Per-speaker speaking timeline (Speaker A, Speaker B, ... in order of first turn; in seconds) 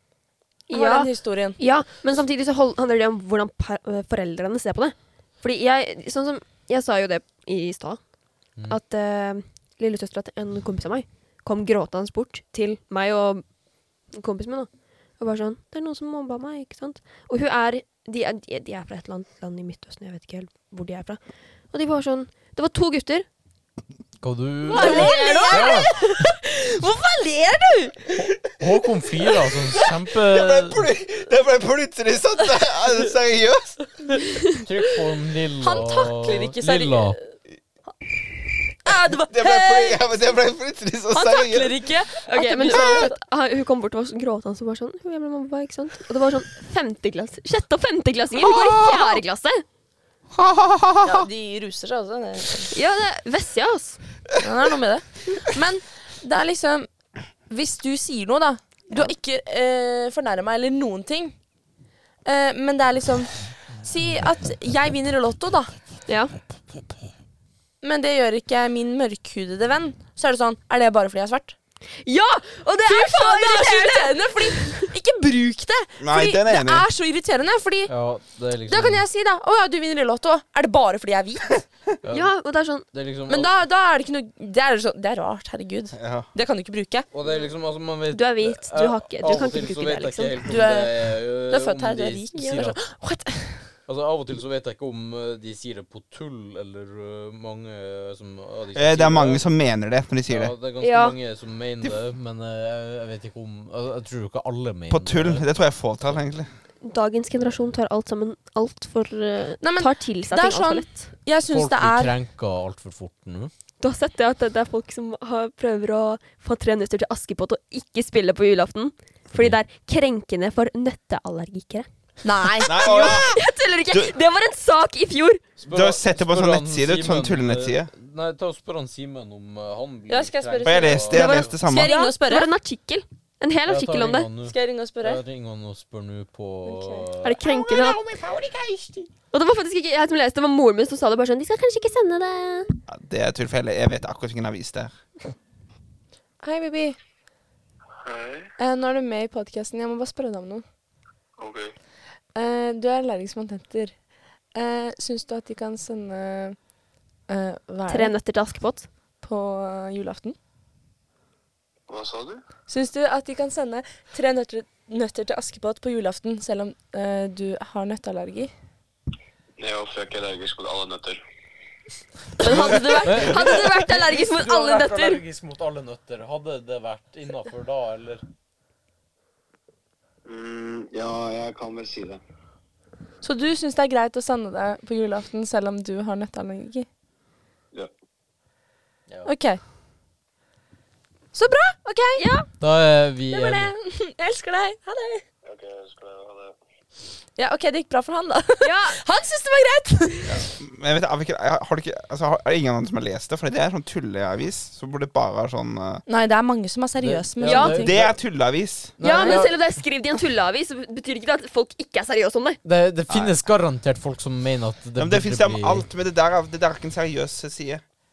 Speaker A: 0.7-8.0, 8.7-13.4, 14.1-21.2, 21.7-23.2, 24.7-26.1, 42.3-49.6, 52.7-54.0, 66.1-66.3, 72.0-74.9, 82.1-82.9, 88.1-90.4, 100.8-101.2, 106.8-111.0, 113.8-121.9, 122.6-125.4, 131.1-134.3, 137.2-138.0, 139.3-142.8, 157.9-158.9, 172.4-175.2, 192.2-192.5, 198.6-199.0, 207.4-207.8, 209.0-212.6
Speaker B: 0.7-1.6, 24.7-28.0, 35.6-37.2, 38.8-40.2, 41.1-43.1, 51.0-52.7, 54.4-56.9, 57.5-61.3, 62.2-63.3, 63.8-65.7, 67.8-71.5, 72.8-77.9, 78.7-81.6, 83.3-87.1, 90.5-93.7, 109.6-112.1, 122.2-123.3, 130.1-132.5, 134.4-135.2, 136.7-137.1, 146.4-147.0, 148.6-150.6, 152.3-153.9, 154.5-156.6, 157.3-158.1, 159.2-160.3, 162.7-168.5, 172.8-173.3, 183.2-186.9, 189.2-189.6, 191.3-192.2, 193.3-195.2, 197.4-200.5, 206.1-208.0, 209.0-209.5
Speaker C: 24.2-25.9, 28.6-30.9, 34.5-37.2, 77.9-79.0, 82.0-82.3, 82.9-83.5, 87.1-92.8, 93.8-99.5, 100.3-105.4, 111.5-113.5, 119.3-119.6, 125.6-131.5, 133.7-137.4, 172.4-178.2, 192.6-193.7, 207.0-208.1, 209.0-209.6, 212.6-215.8
Speaker D: 29.8-33.8, 39.3-41.7, 42.7-43.1, 48.3-49.2, 50.3-51.2, 76.0-76.9, 86.0-86.3, 98.7-100.5, 104.9-106.5, 122.6-124.1, 125.7-127.9, 130.6-131.9, 137.4-139.1, 142.9-144.9, 172.4-172.8, 200.2-206.0, 207.8-208.9, 213.1-213.3, 215.0-217.8
Speaker E: 148.0-148.5, 151.4-151.7, 161.9-162.4, 169.6-171.2, 180.2-182.2, 195.4-196.5